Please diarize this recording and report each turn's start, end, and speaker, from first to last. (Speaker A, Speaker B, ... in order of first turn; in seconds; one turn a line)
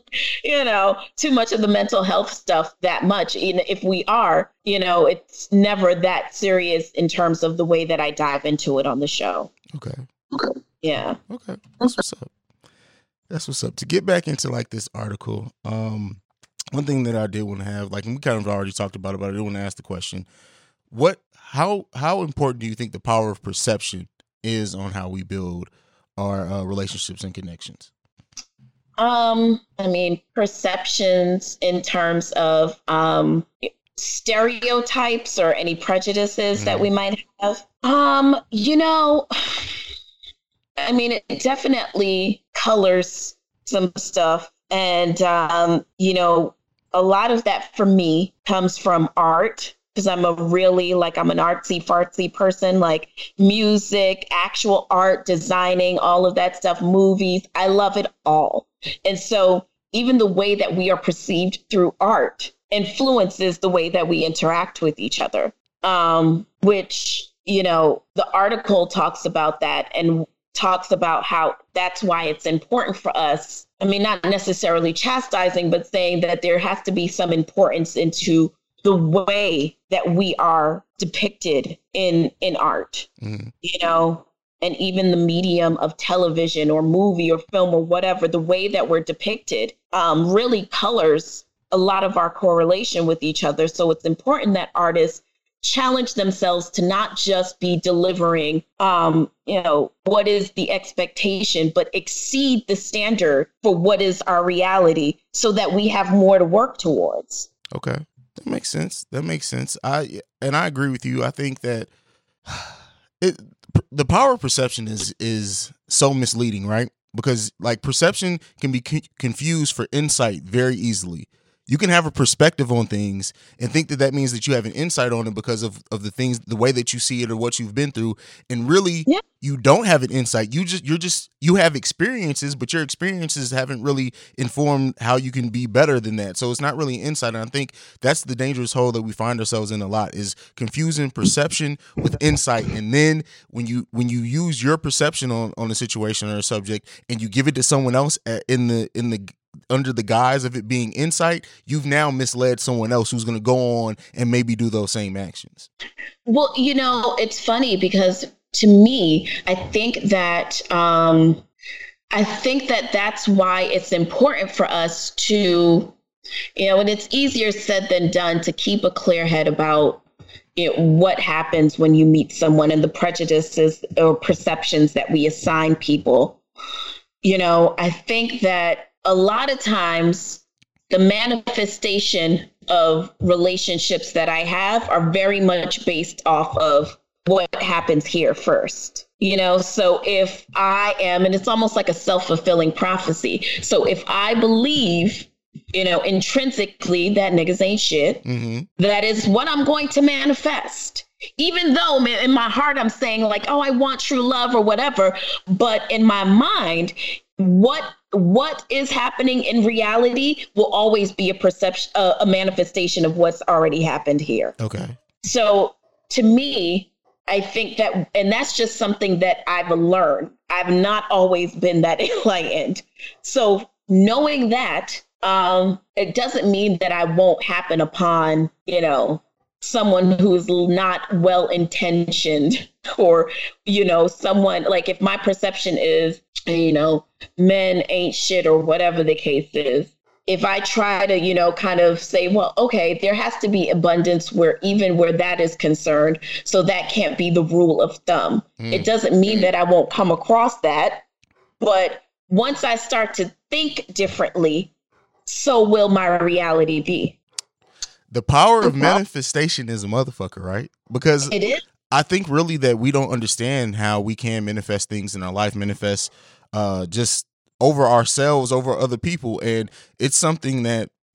Speaker A: 0.4-9.5
Speaker B: 9.7-10.0
Speaker A: 10.8-11.2
Speaker B: 11.3-12.3
Speaker B: 13.3-16.2
Speaker B: 16.7-20.3
Speaker B: 20.9-27.9
Speaker A: 29.0-39.7
Speaker B: 36.5-36.9
Speaker A: 40.8-83.1
Speaker B: 83.2-83.5
Speaker A: 83.6-107.5
Speaker B: 107.7-111.9
Speaker B: 112.5-155.7
Speaker A: 156.2-161.4
Speaker A: 162.1-165.9
Speaker A: 166.6-170.0
Speaker A: 170.6-176.4
Speaker A: 177.2-198.2
Speaker B: 198.2-198.7
Speaker A: 198.8-214.5
Speaker B: 214.6-215.0
Speaker A: 215.2-251.0
Speaker B: 248.6-248.9
Speaker A: 251.6-254.7
Speaker A: 255.3-257.2
Speaker B: 258.1-261.3
Speaker A: 258.6-259.0
Speaker A: 261.3-261.6
Speaker B: 261.9-270.9